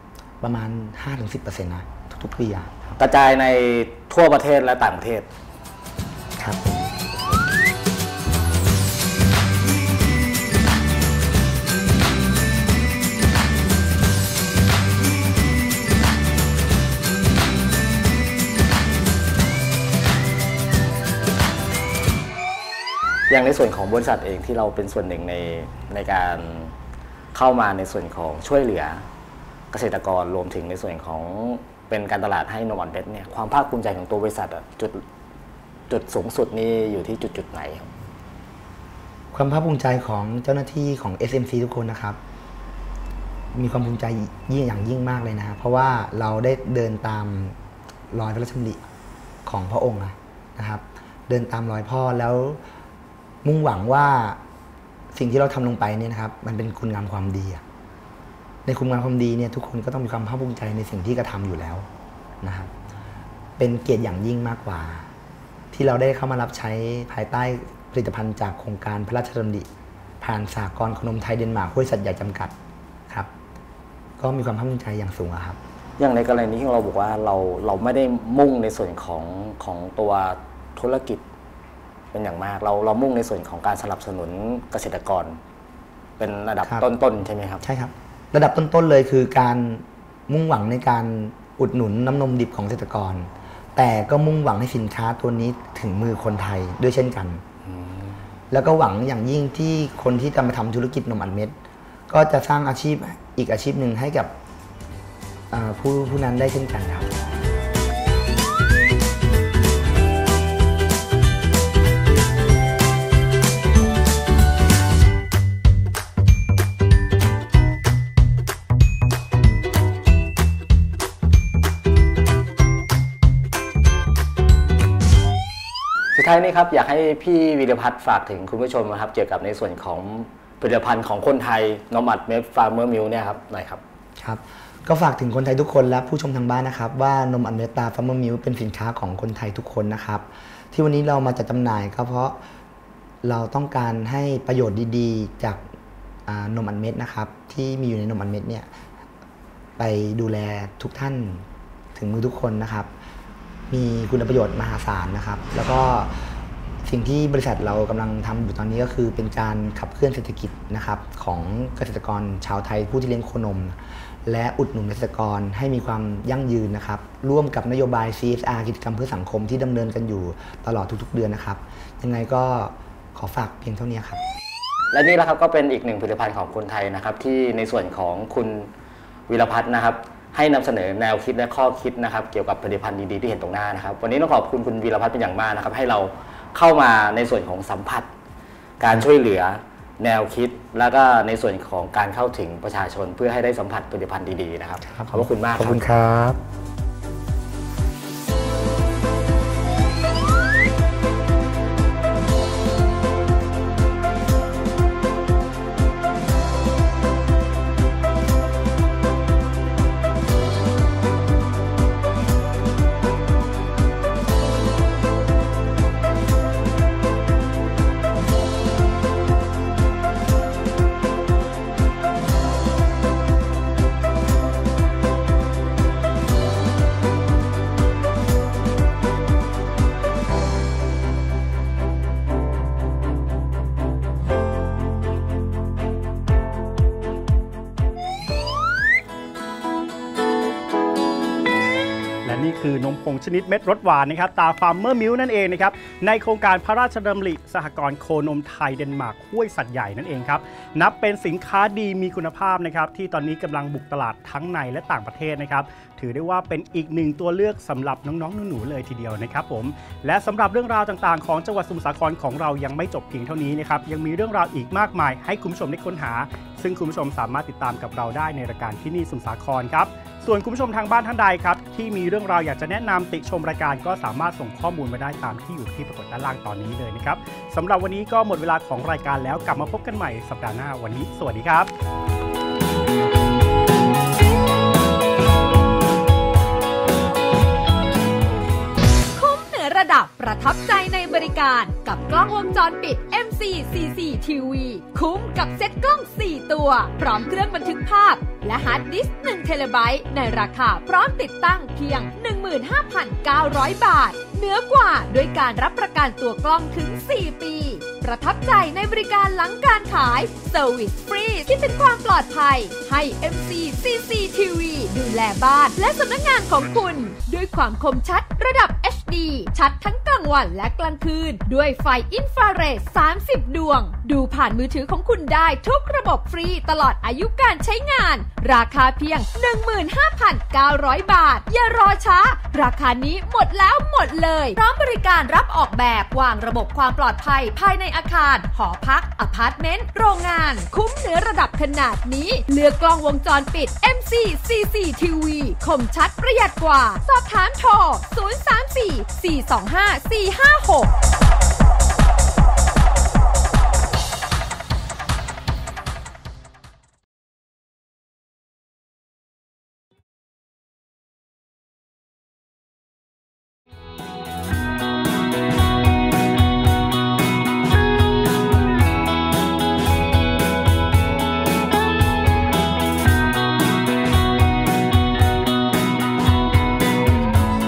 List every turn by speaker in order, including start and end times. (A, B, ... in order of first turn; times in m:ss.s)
0:00.4-0:03.0 A
0:03.0-0:05.3 B
0:06.4-0:06.7 A
0:23.3-0:26.7 B
0:27.3-0:29.0 B
0:29.7-0:35.0 B
0:35.9-0:37.9 B
0:39.3-0:42.2 A
0:43.6-0:47.6 A
0:48.1-0:48.8 A
0:49.4-0:52.6 A
0:53.4-0:54.4 A
0:55.1-0:57.6 A
0:58.7-1:01.9 A
1:02.4-1:02.7 A
1:03.6-1:05.1 A
1:05.7-1:09.7 A
1:10.2-1:12.5 A
1:14.2-1:15.6 A
1:16.0-1:21.2 B
1:22.1-1:25.4 B
1:26.2-1:27.6 B
1:27.6-1:37.4 A
1:37.6-1:38.2 B
1:38.5-1:41.6 A
1:42.1-1:44.3 A
1:45.5-1:47.1 A
2:06.2-2:13.8 B
2:14.2-2:22.4 A
2:23.2-2:25.6 A
2:26.3-2:28.7 A
2:29.8-2:32.9 A
2:33.7-2:54.2 A
2:54.9-2:58.7 B
2:59.3-3:08.1 B
3:08.8-3:15.9 B
3:14.8-3:16.4 A
4:02.2-4:41.7 C
4:49.2-5:50.9 D